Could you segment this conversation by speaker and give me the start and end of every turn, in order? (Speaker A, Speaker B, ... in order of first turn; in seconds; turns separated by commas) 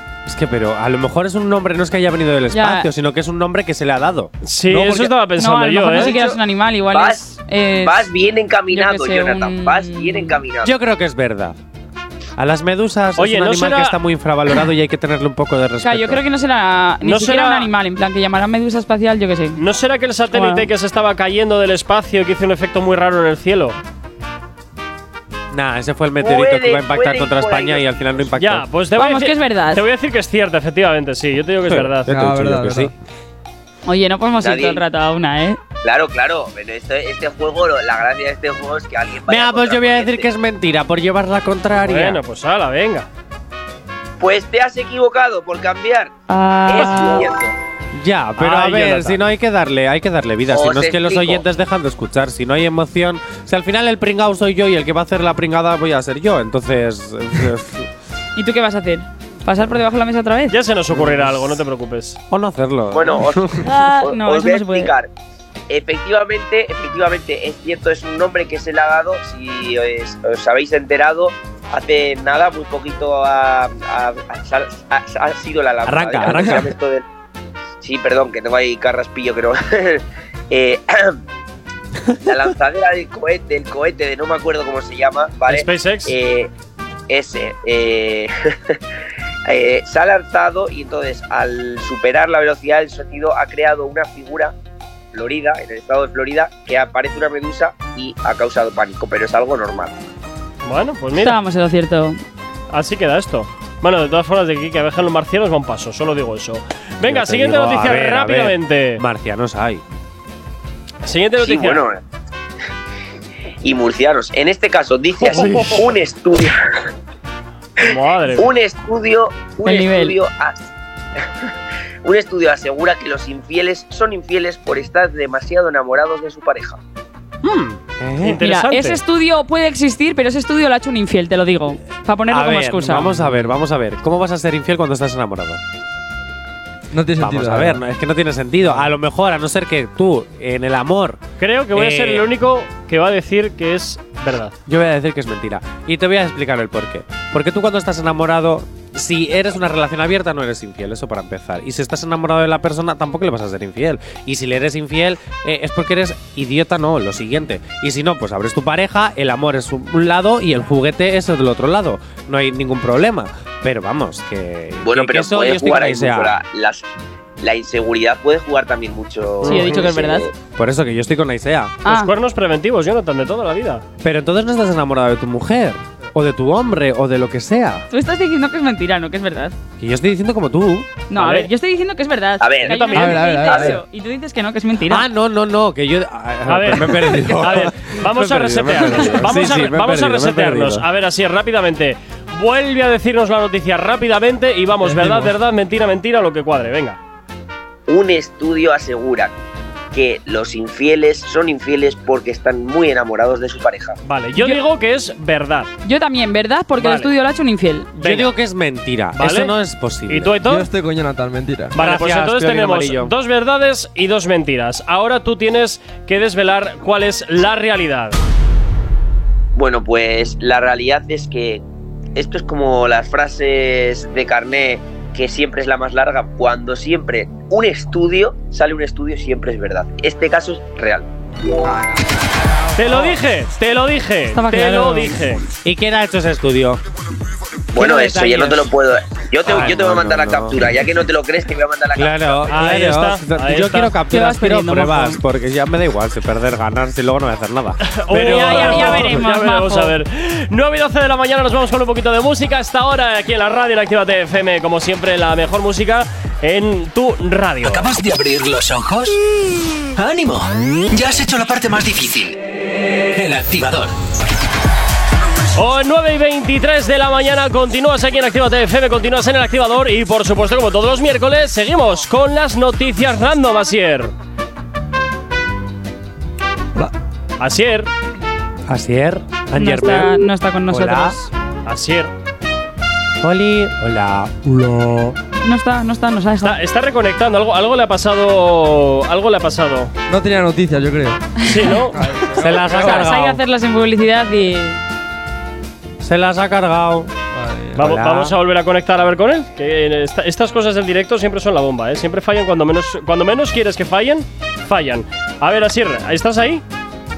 Speaker A: 0.2-5.1, Speaker B: 2.5-2.9, Speaker C: 4.4-6.3, Speaker B: 5.4-8.1, Speaker D: 6.9-10.7, Speaker B: 8.7-10.4, Speaker A: 10.6-11.6, Speaker A: 12.4-16.2, Speaker C: 13.2-14.0, Speaker B: 15.8-19.6, Speaker C: 17.0-17.7, Speaker C: 19.6-23.8, Speaker B: 20.3-20.7, Speaker A: 25.5-28.7, Speaker D: 26.2-28.2, Speaker C: 28.4-32.1, Speaker B: 28.9-29.8, Speaker A: 31.7-32.9, Speaker E: 32.1-32.9, Speaker B: 33.9-35.6, Speaker D: 34.4-34.8, Speaker D: 35.8-40.3, Speaker A: 39.3-42.2, Speaker C: 41.8-43.1, Speaker D: 44.2-46.1, Speaker B: 46.3-47.3, Speaker D: 46.6-47.5, Speaker A: 48.0-57.9, Speaker C: 48.4-49.2, Speaker D: 50.5-51.4, Speaker B: 58.4-60.6, Speaker C: 60.5-62.2, Speaker A: 60.9-61.4, Speaker A: 62.3-63.7, Speaker D: 62.9-65.1, Speaker B: 63.6-64.9, Speaker D: 65.7-77.0, Speaker A: 75.8-76.7, Speaker D: 77.8-81.2, Speaker D: 82.2-86.5, Speaker C: 85.5-86.2, Speaker D: 87.1-88.8, Speaker D: 89.5-94.5, Speaker D: 95.1-100.0, Speaker C: 100.6-101.4, Speaker B: 101.2-102.2, Speaker C: 102.7-109.0, Speaker A: 107.0-109.8, Speaker C: 111.0-111.8, Speaker D: 111.4-112.0, Speaker D: 113.6-116.9, Speaker C: 115.2-115.8, Speaker D: 117.8-120.6, Speaker C: 117.8-118.5, Speaker B: 119.6-120.2, Speaker D: 121.2-121.5, Speaker D: 122.0-126.8, Speaker C: 127.4-129.0, Speaker A: 128.0-128.4, Speaker B: 128.4-133.2, Speaker A: 132.3-135.6, Speaker E: 136.9-137.8, Speaker A: 137.2-141.2, Speaker C: 141.4-144.5, Speaker A: 141.7-142.2, Speaker A: 144.7-166.3, Speaker D: 164.8-166.8, Speaker D: 167.4-170.3, Speaker C: 169.4-169.8, Speaker B: 169.4-170.3, Speaker A: 170.5-171.8, Speaker B: 171.8-172.1, Speaker C: 171.8-173.8, Speaker A: 174.0-177.8, Speaker B: 177.9-179.6, Speaker A: 179.8-180.9, Speaker B: 181.1-185.1, Speaker C: 181.2-181.5, Speaker D: 182.4-183.7, Speaker C: 182.7-183.3, Speaker E: 182.8-183.8, Speaker A: 184.9-190.8, Speaker C: 186.5-197.0, Speaker E: 194.8-195.3, Speaker D: 197.9-199.3, Speaker D: 199.9-204.0, Speaker C: 204.0-205.7, Speaker B: 205.8-207.9, Speaker C: 206.8-207.1, Speaker C: 208.0-208.3, Speaker A: 208.0-210.4, Speaker C: 209.2-209.5, Speaker C: 210.1-210.7, Speaker E: 210.4-211.8, Speaker A: 211.7-213.1, Speaker C: 211.7-218.2, Speaker D: 219.6-221.6, Speaker D: 222.2-231.1, Speaker C: 232.7-235.4, Speaker B: 234.3-235.2, Speaker A: 235.6-236.8, Speaker D: 237.7-242.5, Speaker A: 237.7-238.7, Speaker A: 239.4-240.6, Speaker A: 241.9-249.2, Speaker C: 242.5-243.9, Speaker B: 244.1-245.2, Speaker C: 247.9-257.9, Speaker B: 248.1-249.9, Speaker F: 257.6-259.2, Speaker F: 259.9-262.4, Speaker F: 263.1-263.9, Speaker C: 265.5-274.1, Speaker C: 277.4-277.9, Speaker A: 278.7-281.1, Speaker B: 279.5-281.3, Speaker C: 281.6-282.1, Speaker A: 283.2-285.1, Speaker B: 285.4-286.6, Speaker C: 286.4-289.9, Speaker E: 290.1-291.2, Speaker B: 291.4-291.7, Speaker C: 291.4-292.6, Speaker E: 291.9-293.0, Speaker A: 292.4-293.4, Speaker B: 292.5-294.8, Speaker A: 296.0-297.1, Speaker E: 297.3-297.9, Speaker A: 297.7-298.3, Speaker C: 297.8-306.6